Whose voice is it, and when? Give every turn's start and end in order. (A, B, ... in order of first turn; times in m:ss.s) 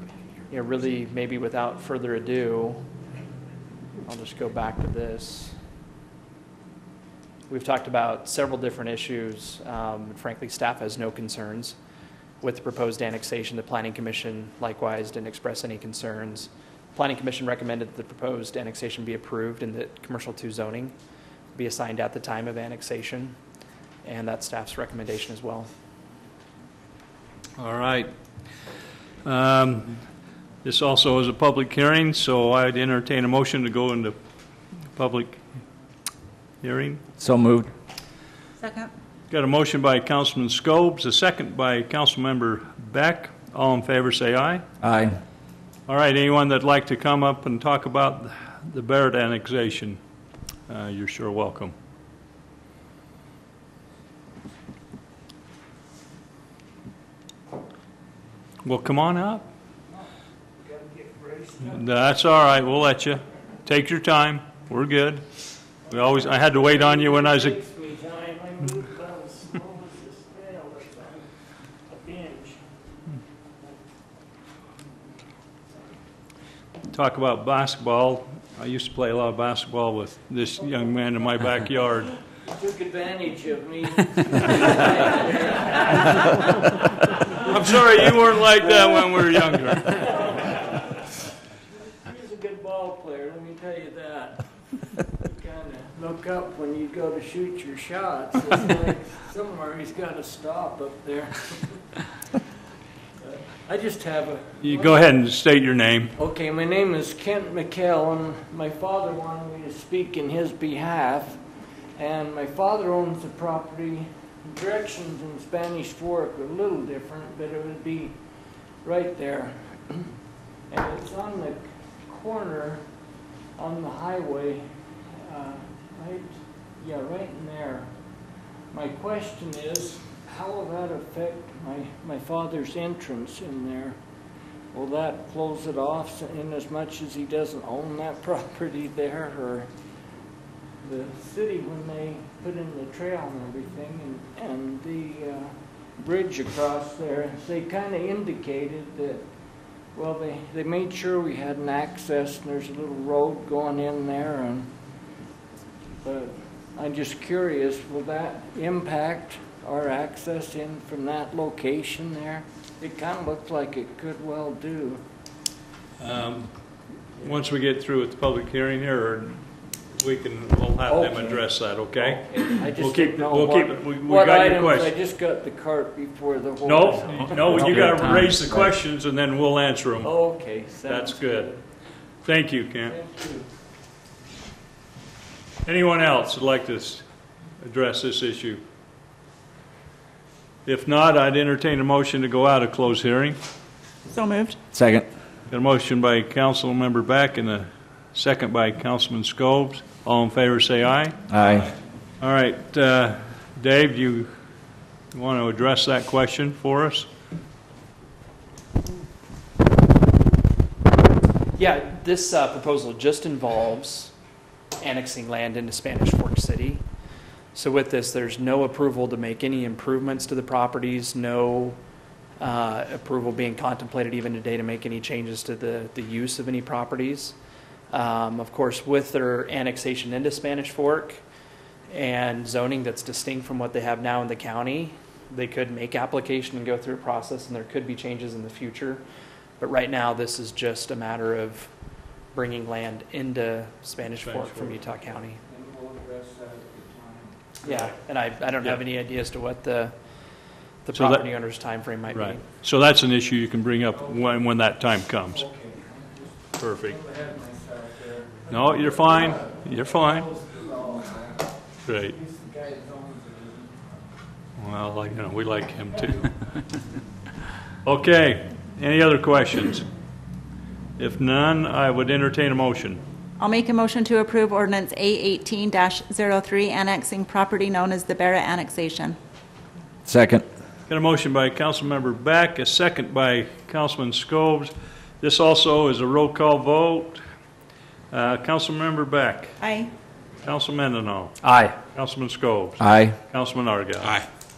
0:00.5-0:02.8 A
0:04.0-0:05.6 A
0:07.5-0:11.8 A
0:12.4-0:21.0 A
0:21.5-0:23.4 A
0:24.0-0:25.7 A
0:27.6-0:28.1 B
0:29.2-0:30.0 B
0:30.6-0:34.2 B
0:35.0-0:35.4 B
0:36.6-0:37.0 B
0:37.2-0:37.7 C
0:38.6-0:38.9 D
0:39.3-0:44.6 B
0:44.8-0:45.2 C
0:45.9-0:50.0 B
0:50.7-0:51.7 B
0:58.6-0:59.5 B
1:00.6-1:02.3 E
1:01.7-1:05.2 B
1:05.9-1:11.3 E
1:05.9-1:07.6 B
1:11.9-1:12.7 E
1:16.9-1:22.2 B
1:22.4-1:42.2 E
1:27.4-1:30.1 B
1:43.2-1:45.1 E
1:44.6-1:46.2 B
1:46.2-1:51.4 E
1:52.0-1:58.2 E
1:58.8-2:00.2 E
2:00.7-2:02.9 E
2:03.6-2:08.2 E
2:08.7-2:14.0 E
2:14.7-2:19.7 E
2:20.8-2:29.2 E
2:29.9-2:34.7 E
2:36.0-2:45.0 E
2:46.0-2:46.6 B
2:47.2-2:49.4 B
2:50.0-2:54.9 B
2:50.9-2:57.7 E
2:56.6-3:00.2 B
2:57.5-2:58.7 C
3:00.0-3:01.6 E
3:00.8-3:01.5 B
3:02.2-3:03.0 B
3:02.9-3:03.5 E
3:05.7-3:07.0 B
3:07.6-3:08.6 B
3:10.7-3:13.4 B
3:14.1-3:14.6 D
3:14.7-3:15.1 C
3:15.5-3:21.2 B
3:21.3-3:21.7 C
3:22.2-3:24.3 B
3:25.1-3:27.1 B
3:31.6-3:34.1 A
3:34.8-3:36.8 A
3:37.5-3:41.8 A
3:42.4-3:47.4 A
3:47.9-3:51.2 A
3:51.9-3:59.0 A
3:59.6-4:01.7 A
4:02.3-4:05.4 A
4:04.2-4:04.8 B
4:05.4-4:07.9 E
4:07.6-4:10.0 A
4:10.8-4:12.4 A
4:10.9-4:11.2 B
4:12.1-4:15.5 B
4:13.9-4:14.4 E
4:15.3-4:21.5 E
4:16.6-4:17.0 B
4:18.5-4:20.3 B
4:21.9-4:22.2 B
4:22.1-4:24.0 E
4:24.6-4:26.6 B
4:27.8-4:29.9 B
4:31.0-4:33.0 B
4:33.4-4:39.2 D
4:40.0-4:40.4 C
4:40.9-4:47.2 B
4:48.1-4:49.6 B
4:49.6-4:49.9 D
4:50.4-4:54.2 B
4:51.4-4:51.8 A
4:52.8-4:53.2 C